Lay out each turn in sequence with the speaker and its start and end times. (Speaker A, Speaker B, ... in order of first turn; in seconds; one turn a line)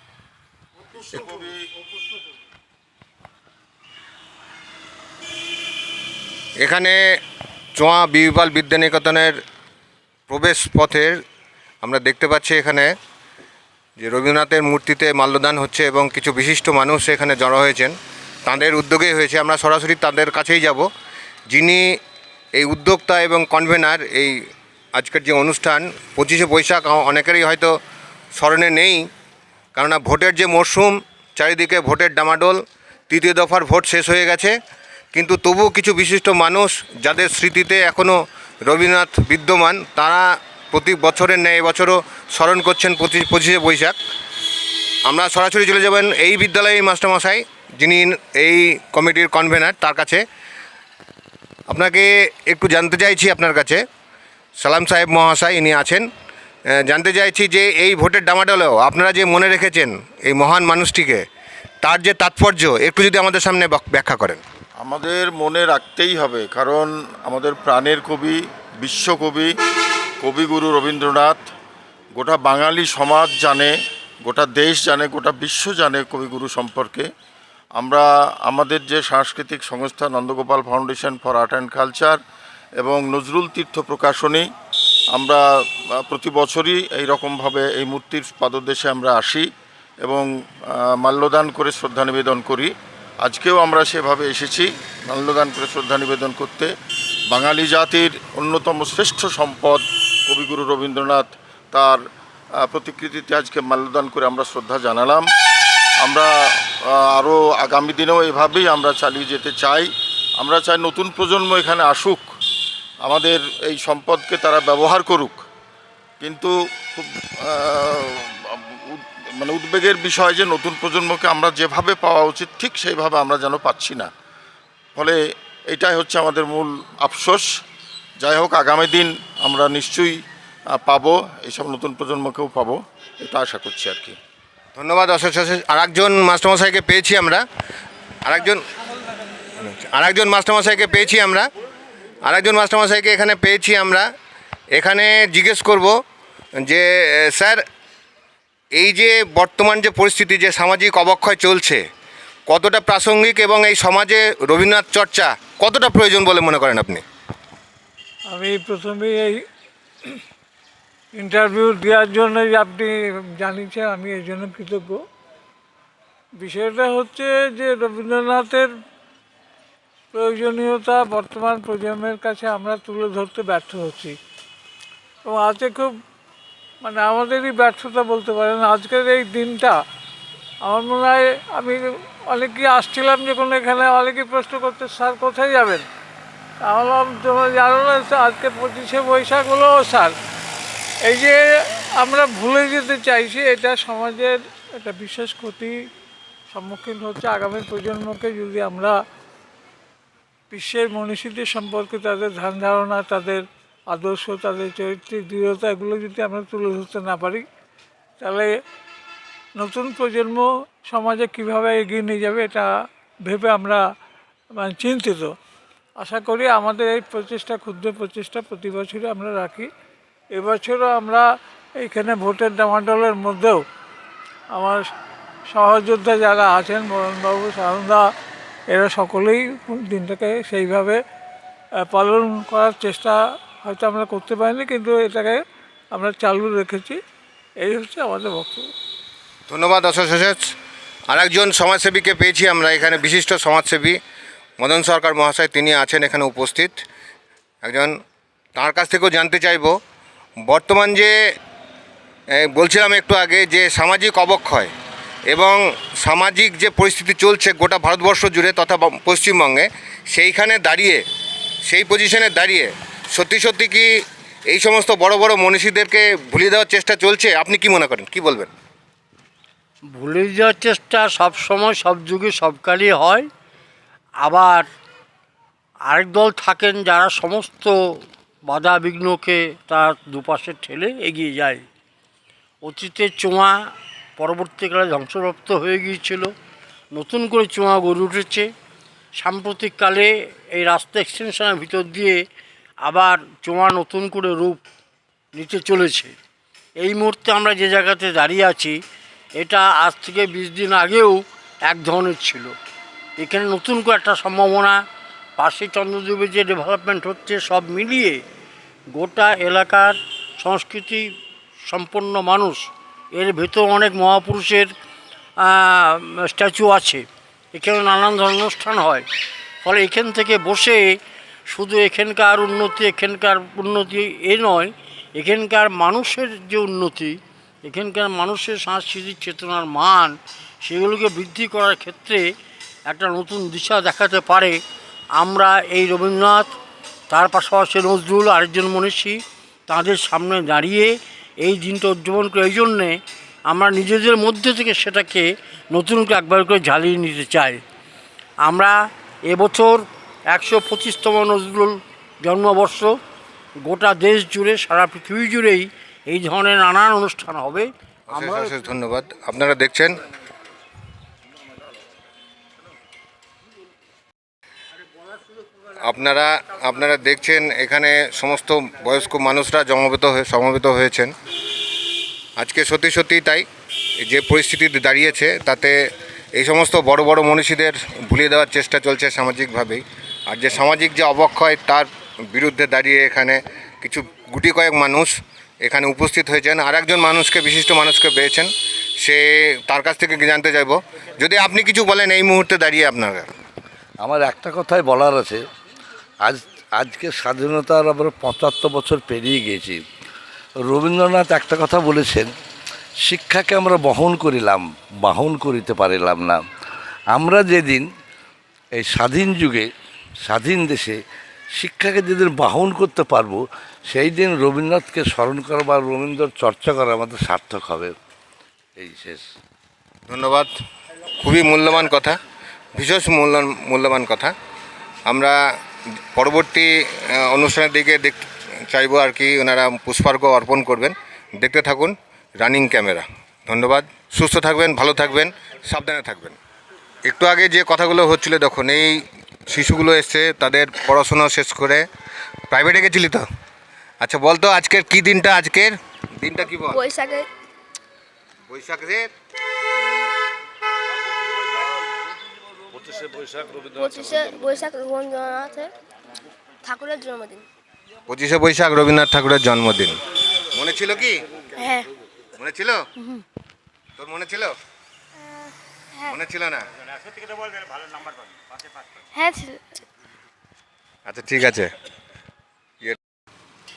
Speaker A: 0.9-1.7
Speaker B: 6.6-7.0
Speaker B: 7.8-9.3
Speaker B: 10.3-11.2
Speaker B: 11.8-12.9
Speaker B: 14.0-20.9
Speaker B: 21.5-22.0
Speaker B: 22.6-24.4
Speaker B: 24.9-27.7
Speaker B: 28.3-29.0
Speaker B: 29.8-34.5
Speaker B: 35.1-44.0
Speaker B: 45.0-50.2
Speaker B: 51.7-53.8
Speaker B: 54.6-56.0
Speaker B: 56.7-61.2
Speaker B: 61.8-64.4
Speaker A: 64.8-69.5
Speaker A: 70.2-71.5
Speaker A: 72.2-73.7
Speaker A: 74.2-77.1
Speaker A: 77.8-82.2
Speaker A: 82.8-84.5
Speaker A: 85.1-89.5
Speaker A: 90.0-96.7
Speaker A: 97.3-102.0
Speaker A: 102.6-105.3
Speaker A: 106.0-106.3
Speaker A: 106.8-109.9
Speaker A: 110.4-112.3
Speaker A: 113.0-115.4
Speaker A: 116.2-124.1
Speaker A: 124.9-127.5
Speaker A: 128.2-130.2
Speaker A: 130.7-134.2
Speaker B: 134.8-137.4
Speaker B: 138.2-138.6
Speaker B: 139.6-141.5
Speaker B: 142.2-144.1
Speaker B: 144.7-145.9
Speaker B: 146.6-147.6
Speaker B: 148.7-151.8
Speaker B: 152.5-157.0
Speaker C: 158.3-159.4
Speaker C: 161.2-165.0
Speaker C: 166.4-168.7
Speaker C: 170.1-174.2
Speaker C: 175.2-175.9
Speaker C: 176.8-179.8
Speaker C: 180.6-185.8
Speaker C: 186.6-190.1
Speaker C: 191.0-191.5
Speaker C: 192.0-195.8
Speaker C: 196.5-199.0
Speaker C: 200.5-207.4
Speaker C: 208.2-208.5
Speaker C: 209.6-212.7
Speaker C: 213.2-213.8
Speaker C: 214.5-215.3
Speaker C: 216.0-219.7
Speaker C: 220.3-221.2
Speaker C: 221.8-223.6
Speaker C: 224.5-224.8
Speaker C: 225.5-228.0
Speaker C: 228.7-231.0
Speaker C: 231.9-235.4
Speaker C: 235.9-237.0
Speaker C: 237.6-238.7
Speaker B: 239.5-240.5
Speaker B: 241.1-244.0
Speaker B: 244.6-246.8
Speaker B: 247.6-247.9
Speaker B: 248.6-249.8
Speaker B: 250.4-251.2
Speaker B: 252.3-254.7
Speaker B: 255.3-261.0
Speaker B: 261.6-263.9
Speaker B: 264.5-268.5
Speaker D: 269.9-273.3
Speaker D: 274.2-274.7
Speaker D: 275.9-277.8
Speaker D: 278.5-281.6
Speaker D: 282.6-286.3
Speaker D: 286.9-288.5
Speaker D: 289.1-292.2
Speaker D: 292.8-294.6
Speaker D: 295.3-296.1
Speaker D: 296.8-298.8
Speaker D: 299.4-302.6
Speaker D: 303.2-304.8
Speaker D: 305.4-308.2
Speaker D: 308.9-311.1
Speaker D: 311.7-314.7
Speaker D: 315.4-319.1
Speaker D: 319.6-320.9
Speaker D: 321.5-332.3
Speaker D: 332.9-334.6
Speaker D: 335.1-336.5
Speaker D: 337.1-347.6
Speaker D: 348.4-353.0
Speaker D: 353.6-357.7
Speaker B: 358.1-360.0
Speaker B: 365.8-371.1
Speaker B: 372.4-373.4
Speaker B: 374.0-375.8
Speaker B: 376.3-393.3
Speaker E: 394.0-395.4
Speaker E: 396.2-399.8
Speaker E: 400.6-402.3
Speaker E: 403.0-406.4
Speaker E: 407.1-407.9
Speaker E: 408.7-409.7
Speaker E: 410.2-411.0
Speaker E: 411.5-417.9
Speaker E: 418.8-419.2
Speaker B: 420.1-420.5
Speaker B: 421.1-422.1
Speaker B: 422.7-424.3
Speaker B: 425.1-425.4
Speaker B: 426.1-436.4
Speaker B: 437.0-441.8
Speaker B: 442.5-443.2
Speaker B: 444.0-446.9
Speaker F: 446.7-447.3
Speaker B: 448.5-449.1
Speaker F: 449.8-450.1
Speaker F: 453.7-455.7
Speaker F: 456.6-457.4
Speaker B: 458.1-459.9
Speaker B: 460.5-461.2
Speaker F: 461.6-461.9
Speaker B: 462.4-462.9
Speaker B: 464.0-464.6
Speaker B: 466.0-466.6
Speaker F: 469.1-469.6
Speaker B: 471.1-471.7